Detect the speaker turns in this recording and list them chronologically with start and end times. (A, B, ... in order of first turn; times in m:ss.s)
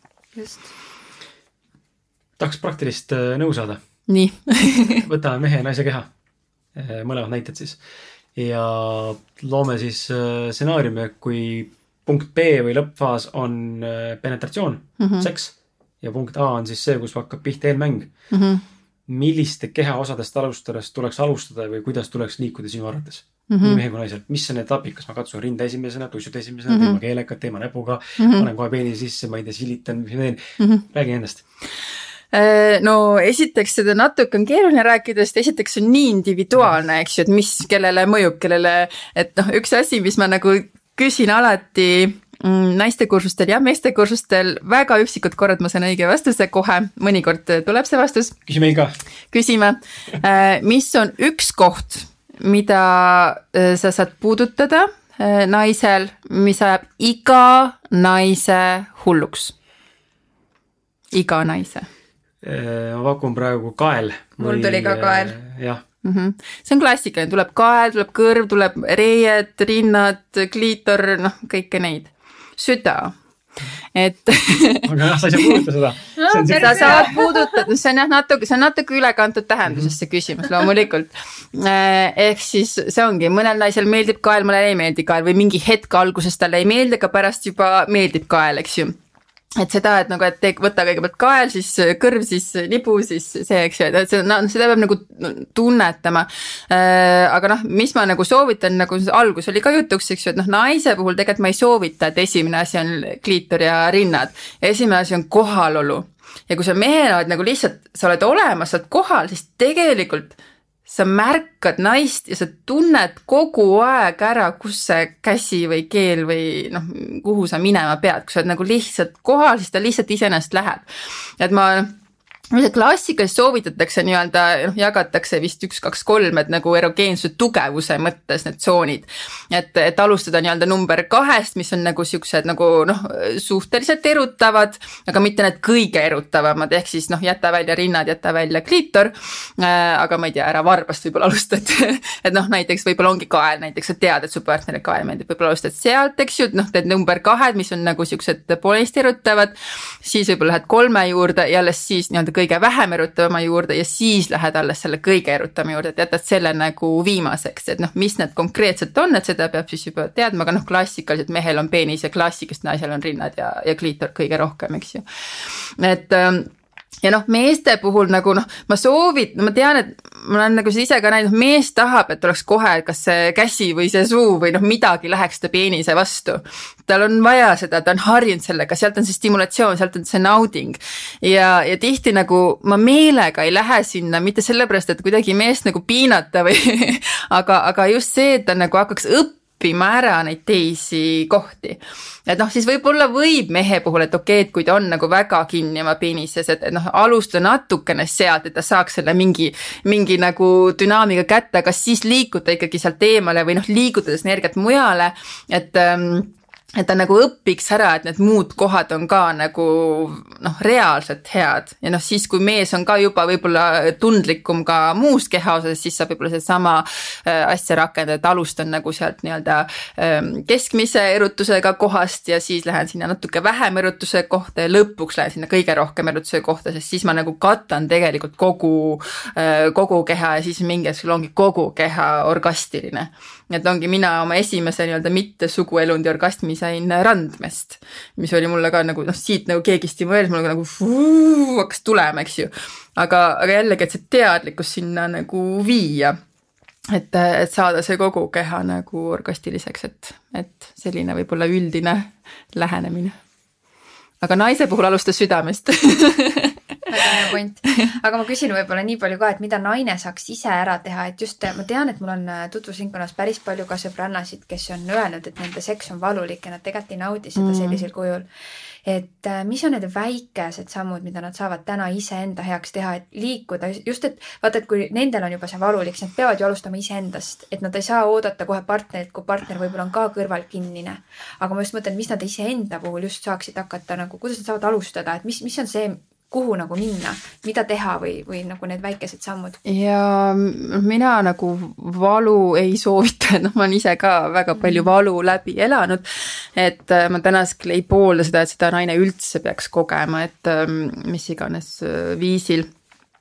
0:00.4-0:00.7 A
0:02.4-0:03.8 B
0:04.1-0:05.1 C
0:04.9-0:06.1 B
0:06.8-0:07.8 B
0:08.4-0:18.1 B
0:15.0-0:15.3 C
0:18.3-0:18.6 C
0:19.1-0:31.4 B
0:23.5-0:23.8 C
0:26.7-0:27.0 C
0:28.2-0:28.5 C
0:32.3-0:48.4 C
0:48.5-0:49.0 B
0:49.3-0:59.6 C
1:01.1-1:01.9 C
1:02.4-1:05.8 B
1:04.4-1:05.4 A
1:06.0-1:13.2 C
1:14.0-1:15.6 C
1:14.8-1:17.2 B
1:16.2-1:17.6 A
1:16.5-1:29.0 C
1:19.7-1:19.9 B
1:29.6-2:00.9 C
2:01.4-2:02.0 C
2:02.5-2:46.5 C
2:47.0-4:06.2 C
4:06.9-4:13.2 C
4:14.2-4:17.1 C
4:16.9-4:28.3 A
4:27.4-4:27.9 C
4:28.8-4:49.6 A
4:49.6-5:02.7 C
4:54.6-4:54.9 A